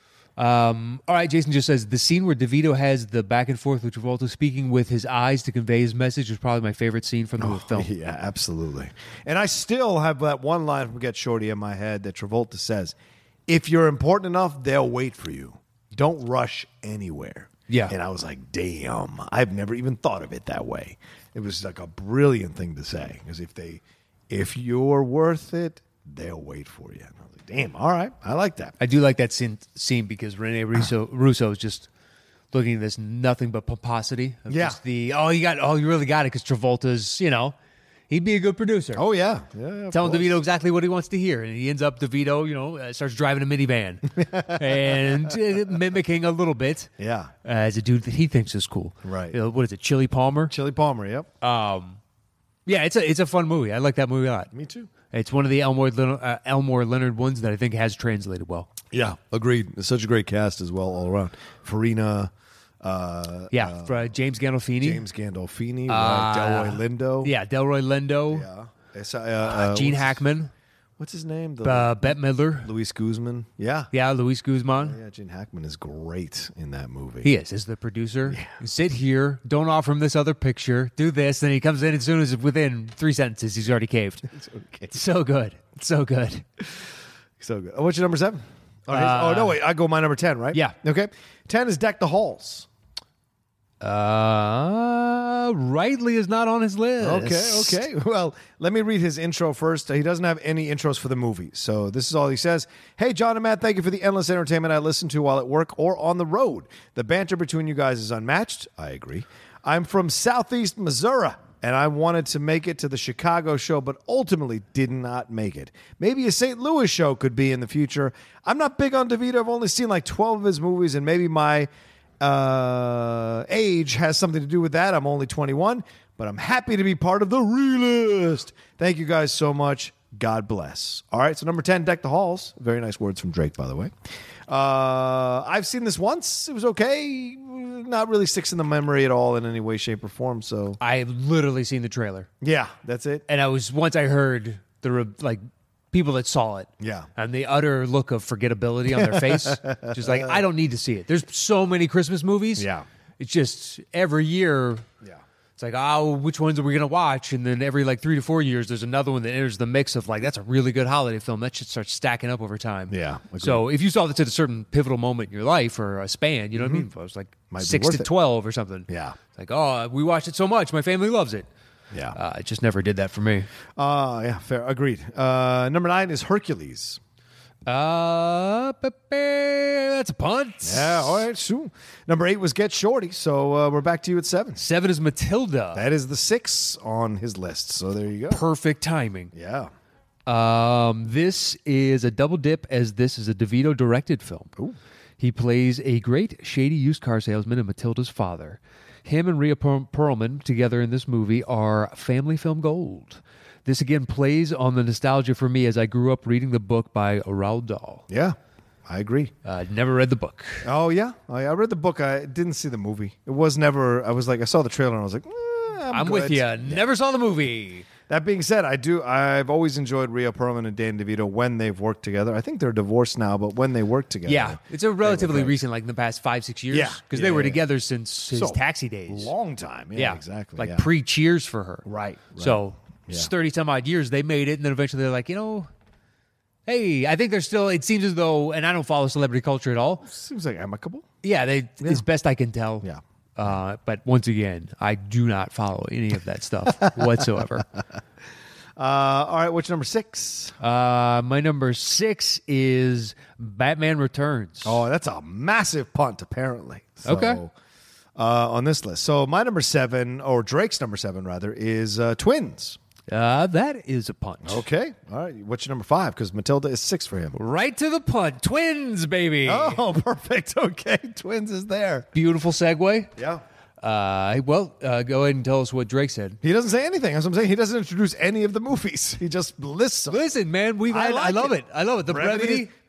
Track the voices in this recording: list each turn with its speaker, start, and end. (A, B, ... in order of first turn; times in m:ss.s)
0:00.4-0:07.9 A
0:07.4-0:12.9 B
0:13.5-0:28.7 B
0:17.7-0:17.9 A
0:28.8-0:31.9 A
0:32.5-0:37.5 A
0:34.5-0:34.8 B
0:38.1-0:39.0 A
0:39.0-0:40.4 B
0:39.9-0:46.9 A
0:44.2-0:45.3 B
0:47.0-0:47.3 B
0:47.4-0:50.5 A
0:49.0-0:49.4 B
0:50.5-0:51.3 B
0:51.4-0:52.0 A
0:52.6-0:54.5 A
0:54.5-0:54.9 B
0:55.1-0:58.7 A
0:58.9-1:02.3 B
1:02.8-1:04.0 B
1:03.5-1:05.0 A
1:04.8-1:07.3 B
1:05.9-1:08.5 A
1:08.3-1:10.2 B
1:09.5-1:10.5 A
1:11.0-1:13.9 B
1:11.6-1:12.7 A
1:13.9-1:15.0 A
1:14.8-1:17.3 B
1:17.2-1:24.2 A
1:24.3-1:24.9 B
1:24.9-1:26.5 A
1:27.4-1:32.7 B
1:28.9-1:29.6 A
1:33.8-1:37.8 A
1:37.0-2:01.7 B
2:02.2-2:13.9 B
2:14.5-2:20.8 B
2:20.8-2:22.3 A
2:22.4-2:23.2 B
2:23.3-2:32.7 A
2:26.8-2:27.1 B
2:28.9-2:30.4 B
2:32.6-2:32.8 B
2:33.2-2:34.9 A
2:35.6-2:51.5 A
2:42.9-2:43.6 B
2:46.6-2:46.9 B
2:47.5-2:48.1 B
2:48.9-2:49.2 B
2:52.1-2:53.5 A
2:53.8-2:57.0 B
2:57.6-3:01.2 A
3:00.6-3:04.6 B
3:04.6-3:05.8 A
3:05.7-3:08.4 B
3:08.3-3:09.3 A
3:09.3-3:09.7 B
3:10.3-3:14.5 A
3:15.2-3:28.0 A
3:28.1-3:29.3 B
3:29.4-3:30.7 A
3:30.6-3:36.8 B
3:35.9-3:37.9 A
3:38.1-3:45.6 B
3:44.2-3:49.3 A
3:46.7-3:47.6 B
3:48.3-3:50.8 B
3:49.9-3:51.8 A
3:51.8-3:53.3 B
3:52.4-3:55.7 A
3:56.7-4:00.0 A
4:00.0-4:01.1 B
4:01.2-4:07.7 A
4:08.8-4:10.6 B
4:10.6-4:14.8 A
4:14.6-4:17.5 B
4:17.0-4:17.4 A
4:18.2-4:22.8 B
4:23.1-4:24.6 A
4:24.4-4:27.4 B
4:27.3-4:29.8 A
4:29.4-4:32.1 B
4:32.1-4:33.1 A
4:33.2-4:33.4 B
4:33.8-4:36.4 A
4:36.4-4:40.2 B
4:40.1-4:42.7 A
4:40.9-4:41.5 B
4:42.1-4:42.7 B